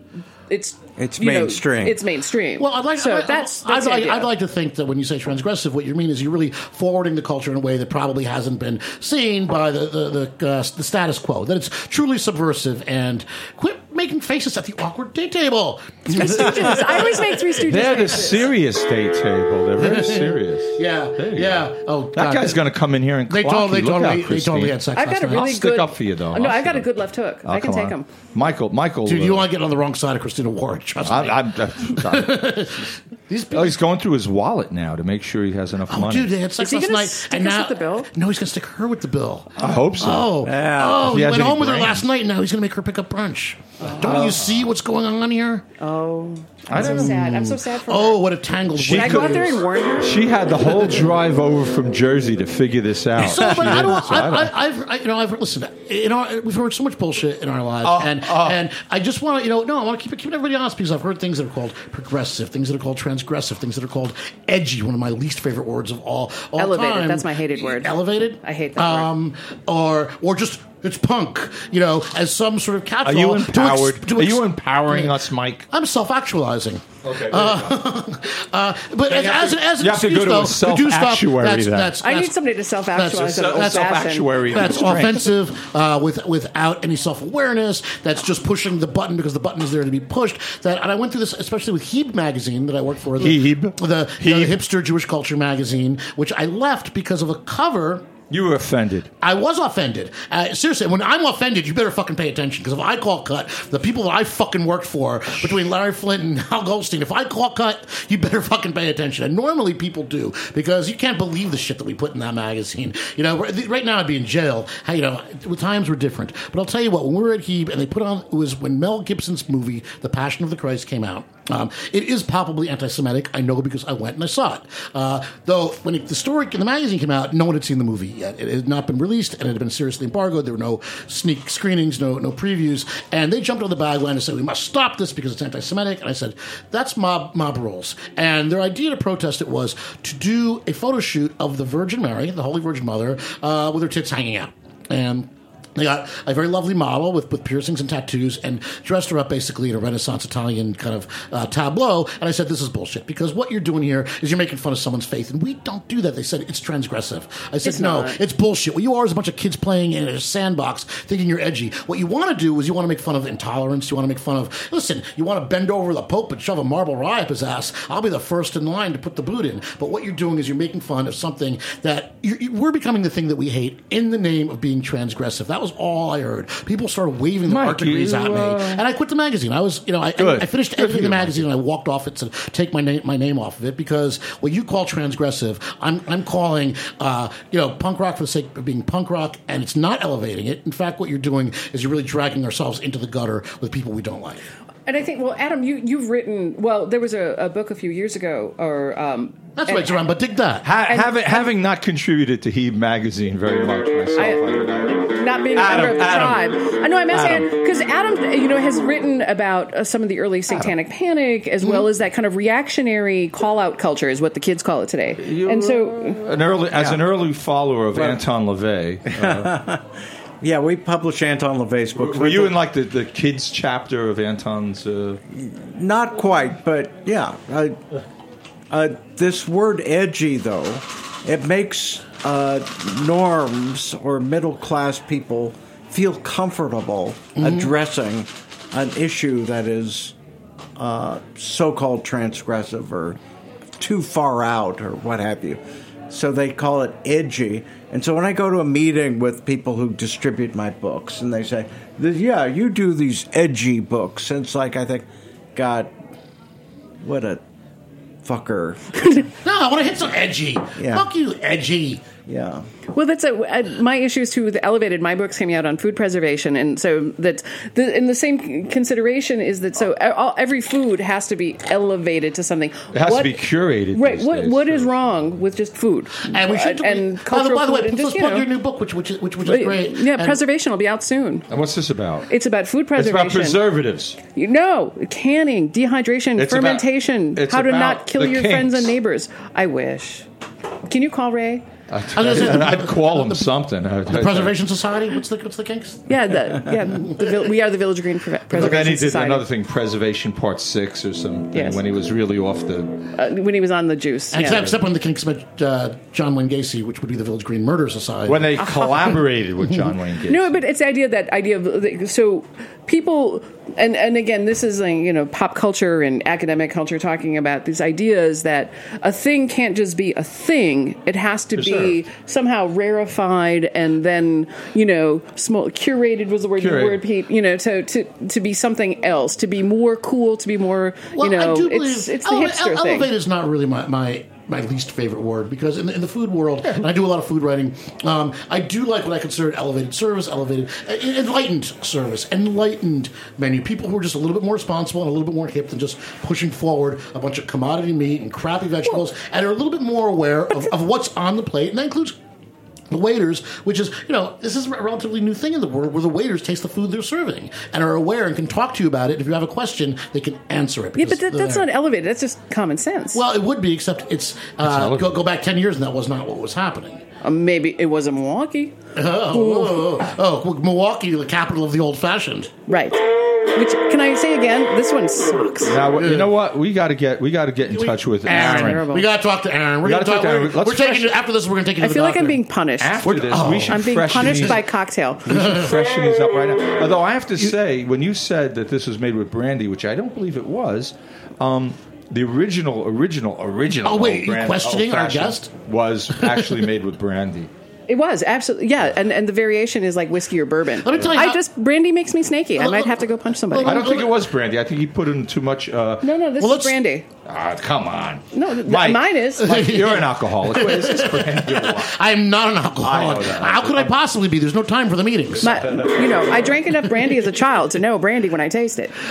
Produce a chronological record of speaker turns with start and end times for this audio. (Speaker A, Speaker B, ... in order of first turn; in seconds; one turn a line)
Speaker A: 0.5-4.3
Speaker B: 1.0-2.0
Speaker C: 2.6-18.1
Speaker A: 16.1-18.4
Speaker D: 17.6-26.9
Speaker C: 19.8-22.7
Speaker C: 23.3-25.6
Speaker A: 24.9-28.1
Speaker D: 27.4-29.5
Speaker C: 29.1-33.8
Speaker D: 31.0-32.6
Speaker D: 33.5-36.3
Speaker C: 35.9-45.6
Speaker A: 36.6-38.1
Speaker D: 39.6-40.3
Speaker B: 40.4-41.2
Speaker D: 41.0-42.0
Speaker D: 44.0-44.7
Speaker B: 44.0-44.4
Speaker A: 45.8-48.2
Speaker D: 46.7-47.2
Speaker C: 46.7-49.6
Speaker D: 48.7-54.5
Speaker A: 48.9-50.7
Speaker C: 53.1-75.2
Speaker D: 57.8-58.6
Speaker A: 66.6-69.1
Speaker D: 73.0-75.7
Speaker C: 75.7-82.4
Speaker D: 77.0-77.8
Speaker D: 79.1-82.0
Speaker A: 82.0-84.5
Speaker C: 82.9-98.1
Speaker D: 83.2-85.3
Speaker D: 93.2-94.5
Speaker D: 98.3-99.1
Speaker C: 99.2-194.4
Speaker A: 157.6-158.2
Speaker D: 177.5-178.8
Speaker D: 180.2-181.4
Speaker A: 194.8-200.0
Speaker C: 199.6-200.7
Speaker D: 200.6-206.6
Speaker A: 200.9-201.5
Speaker A: 204.2-216.2
Speaker D: 207.1-207.5
Speaker D: 215.2-219.5
Speaker B: 216.7-217.0
Speaker B: 217.9-218.2
Speaker B: 219.1-222.6
Speaker D: 221.9-225.2
Speaker B: 225.3-227.8
Speaker B: 228.7-240.1
Speaker C: 237.4-237.7
Speaker B: 240.8-243.2
Speaker B: 243.8-255.9
Speaker B: 257.0-257.4
Speaker B: 258.2-259.2
Speaker C: 259.3-262.1
Speaker B: 260.8-261.1
Speaker B: 262.2-262.7
Speaker A: 262.9-273.4
Speaker D: 272.9-275.0
Speaker A: 273.9-278.5
Speaker C: 276.2-280.4
Speaker A: 279.4-281.5
Speaker D: 281.5-282.3
Speaker A: 282.3-283.6
Speaker D: 282.9-284.2
Speaker A: 284.3-290.2
Speaker D: 286.4-288.9
Speaker A: 290.8-291.7
Speaker D: 291.9-294.6
Speaker C: 292.1-296.1
Speaker A: 296.1-299.4
Speaker C: 296.9-297.4
Speaker D: 298.5-303.1
Speaker A: 301.5-301.8
Speaker A: 303.1-304.7
Speaker C: 304.3-308.6
Speaker D: 308.3-310.6
Speaker A: 310.3-333.1
Speaker D: 321.6-322.0
Speaker D: 326.6-327.0
Speaker C: 331.1-352.2
Speaker C: 352.9-361.7
Speaker A: 361.0-363.2
Speaker C: 363.1-367.0
Speaker D: 364.6-365.2
Speaker A: 367.2-368.7
Speaker C: 368.9-372.5
Speaker A: 369.3-369.8
Speaker A: 372.7-375.8
Speaker D: 375.6-378.9
Speaker C: 375.9-376.3
Speaker C: 377.7-382.4
Speaker A: 378.3-379.1
Speaker D: 379.8-381.1
Speaker A: 381.8-383.1
Speaker D: 382.8-384.6
Speaker C: 383.0-384.6
Speaker A: 383.7-385.3
Speaker D: 385.2-397.5
Speaker C: 385.3-385.8
Speaker C: 393.8-395.5
Speaker C: 396.1-396.6
Speaker A: 397.9-403.8
Speaker C: 400.8-401.4
Speaker C: 402.6-404.1
Speaker D: 403.6-406.1
Speaker A: 406.0-407.1
Speaker C: 406.4-406.8
Speaker D: 407.2-411.9
Speaker A: 408.3-409.8
Speaker C: 409.4-415.8
Speaker D: 412.8-413.9
Speaker A: 415.4-418.9
Speaker D: 415.7-416.1